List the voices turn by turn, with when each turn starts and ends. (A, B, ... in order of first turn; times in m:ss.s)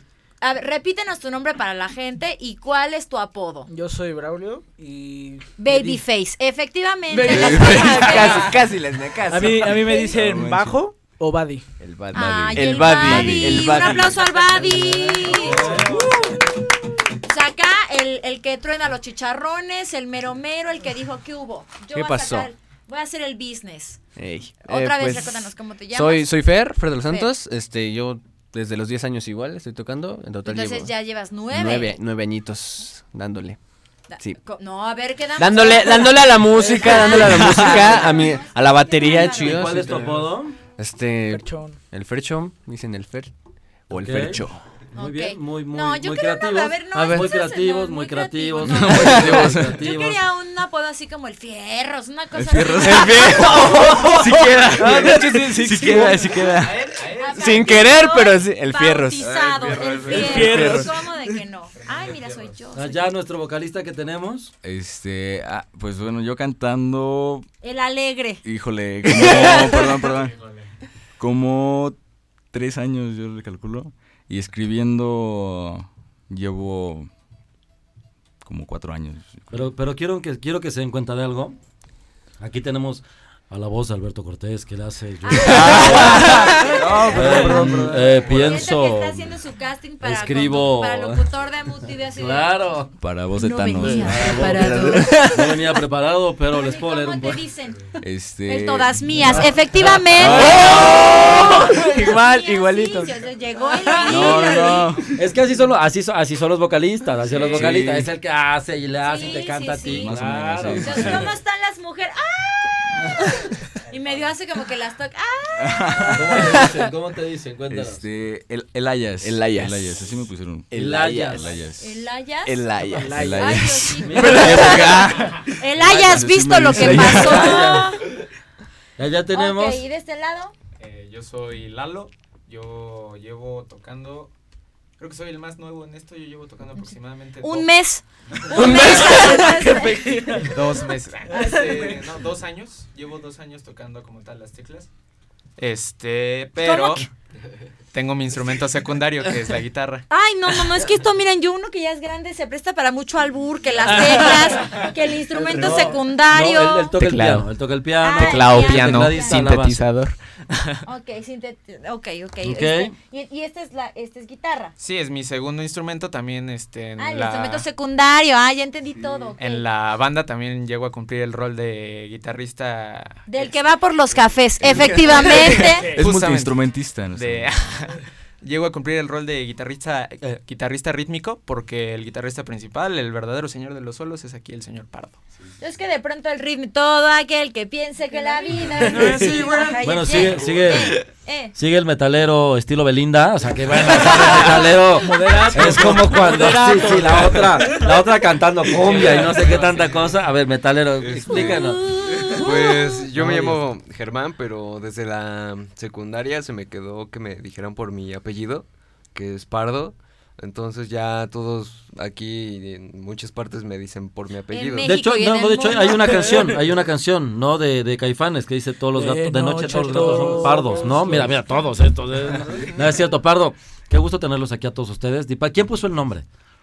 0:00.4-0:03.7 A
0:03.7-0:06.0 B
0:05.6-0:08.6 A
0:07.1-0:09.9 C
0:07.3-0:08.3 D
0:09.3-0:11.6 B
0:09.5-0:10.8 D
0:11.8-0:14.7 C
0:12.1-0:15.8 A
0:12.1-0:14.3 D
0:14.8-0:16.4 B
0:15.3-0:16.2 E
0:17.2-0:24.0 A
0:21.9-0:22.5 C
0:24.2-0:30.9 C
0:24.6-0:26.4 A
0:27.0-0:27.3 A
0:30.4-0:32.0 A
0:31.5-0:33.6 C
0:34.1-0:40.0 A
0:35.4-0:40.2 C
0:36.6-0:37.9 E
0:39.1-0:40.6 E
0:40.8-0:43.3 C
0:41.3-0:41.8 B
0:43.9-0:44.6 C
0:43.9-0:44.4 E
0:45.0-0:50.2 E
0:45.0-0:54.1 A
0:46.9-0:47.2 C
0:48.6-0:49.8 D
0:49.0-0:49.4 C
0:52.3-0:53.7 D
0:52.8-0:59.3 C
0:54.8-0:55.3 F
0:54.8-0:56.1 B
0:55.5-0:56.2 D
0:56.0-0:58.0 G
0:57.2-1:03.1 A
0:59.2-1:00.4 D
0:59.3-1:00.4 F
1:00.1-1:00.9 B
1:00.1-1:00.5 G
1:00.3-1:00.9 C
1:01.7-1:02.6 G
1:02.8-1:04.5 E
1:04.6-1:07.5 D
1:07.6-1:08.4 A
1:08.4-1:10.4 D
1:10.0-1:10.7 G
1:11.2-1:12.0 D
1:12.5-1:17.1 D
1:18.4-1:19.6 D
1:19.5-1:21.6 E
1:22.4-1:29.4 E
1:25.2-1:32.6 A
1:25.4-1:28.6 D
1:25.6-1:26.6 C
1:27.6-1:27.9 C
1:30.0-1:31.3 E
1:32.2-1:32.9 E
1:33.0-1:34.9 D
1:33.4-1:35.2 A
1:33.8-1:37.4 E
1:34.2-1:35.5 C
1:36.5-1:45.0 A
1:38.0-1:39.6 D
1:39.8-1:40.4 E
1:40.2-1:41.2 D
1:40.2-1:43.2 C
1:44.1-1:45.1 D
1:45.2-1:51.2 E
1:47.3-1:47.7 G
1:47.5-1:48.1 D
1:49.0-1:50.1 A
1:49.9-1:51.3 D
1:50.8-1:56.4 A
1:53.9-1:54.3 G
1:55.6-1:56.4 D
1:56.1-1:58.0 E
1:56.6-1:56.8 C
1:57.7-2:02.0 D
1:59.2-2:00.0 C
2:00.7-2:01.5 C
2:00.7-2:01.5 E
2:01.8-2:02.7 A
2:02.4-2:03.4 C
2:02.9-2:03.7 B
2:03.0-2:04.9 D
2:03.4-2:08.1 A
2:04.0-2:04.8 E
2:04.1-2:05.5 C
2:05.8-2:07.8 D
2:05.8-2:08.0 E
2:09.0-2:09.8 E
2:09.3-2:10.5 A
2:10.8-2:14.3 G
2:15.0-2:17.7 G
2:17.4-2:20.4 A
2:18.5-2:19.0 G
2:18.5-2:19.9 C
2:19.7-2:20.5 B
2:20.4-2:24.9 G
2:21.4-2:21.8 B
2:25.6-2:27.1 G
2:26.6-2:27.1 A
2:27.9-2:30.0 G
2:30.1-2:37.0 A
2:34.6-2:34.9 G
2:35.4-2:39.8 E
2:37.0-2:37.5 G
2:38.0-2:39.4 A
2:38.1-2:40.8 G
2:40.8-2:44.7 A
2:42.4-2:42.9 E
2:44.8-2:47.7 G
2:47.0-2:49.7 A
2:49.4-2:53.5 G
2:53.3-2:55.9 A
2:54.6-3:05.2 G
2:55.9-2:57.8 D
3:05.6-3:11.6 A
3:08.4-3:09.5 B
3:08.6-3:10.7 G
3:09.0-3:09.3 E
3:09.8-3:11.0 E
3:11.6-3:21.9 E
3:14.1-3:14.5 A
3:14.1-3:17.9 B
3:18.6-3:20.2 G
3:21.0-3:35.0 F
3:21.3-3:23.0 A
3:23.1-3:23.6 E
3:34.5-3:36.5 A
3:34.8-3:46.2 E
3:38.9-3:41.4 B